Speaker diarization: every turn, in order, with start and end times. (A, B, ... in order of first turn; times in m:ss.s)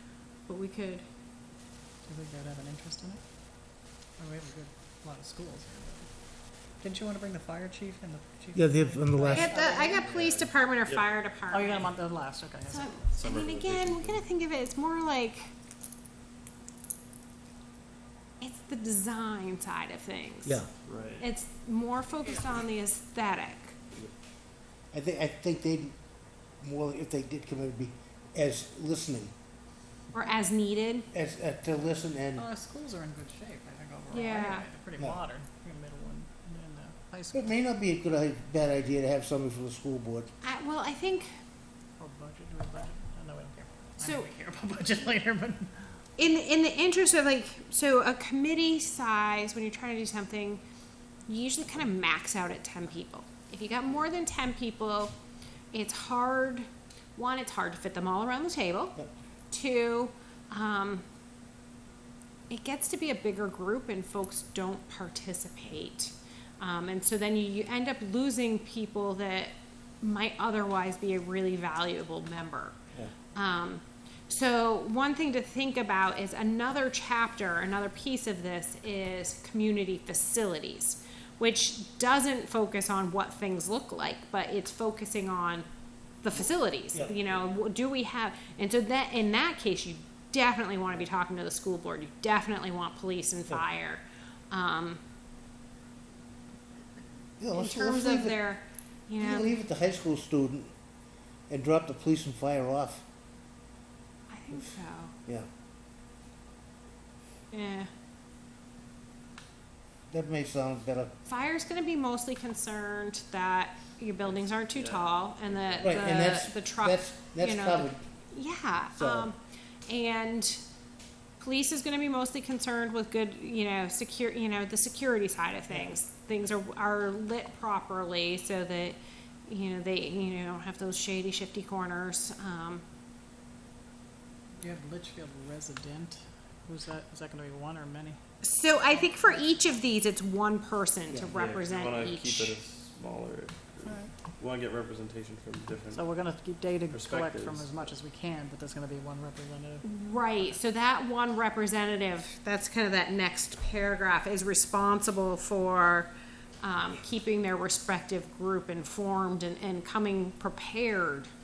0:00.4-0:01.0 A
0:02.0-0:03.2 B
0:04.2-0:06.1 B
0:06.8-0:10.0 B
0:08.5-0:09.6 C
0:09.3-0:11.9 A
0:09.9-0:11.1 D
0:11.5-0:13.1 B
0:12.7-0:15.4 A
0:13.1-0:14.2 D
0:18.4-0:20.6 A
0:20.4-0:20.7 C
0:20.8-0:21.2 D
0:21.2-0:23.8 A
0:24.9-0:26.0 C
0:26.6-0:29.3 C
0:30.1-0:31.1 A
0:31.1-0:32.4 C
0:32.4-0:37.5 B
0:34.1-0:34.6 A
0:37.3-0:40.3 C
0:40.4-0:41.3 A
0:42.0-0:45.7 B
0:44.0-0:44.3 A
0:46.2-0:50.6 A
0:51.3-0:55.1 A
0:55.7-0:59.0 A
0:59.5-1:01.0 A
1:02.5-1:12.8 A
1:13.3-1:25.6 A
1:26.2-1:35.0 A
1:26.9-1:27.2 C
1:37.4-1:38.4 C
1:37.5-1:39.6 A
1:39.2-1:40.7 C
1:41.5-1:43.0 C
1:44.3-1:45.2 A
1:47.5-1:47.9 A
1:50.1-1:51.1 C
1:51.2-1:59.4 A
1:54.3-1:56.0 D
1:55.8-1:58.0 C
1:59.0-1:59.3 C
1:59.9-2:00.6 A
2:01.4-2:12.8 A
2:14.6-2:18.2 B
2:18.4-2:22.6 A
2:18.9-2:19.8 B
2:21.3-2:26.0 D
2:23.8-2:24.2 B
2:25.9-2:29.8 B
2:26.9-2:27.9 D
2:29.8-2:36.1 A
2:36.6-2:41.3 A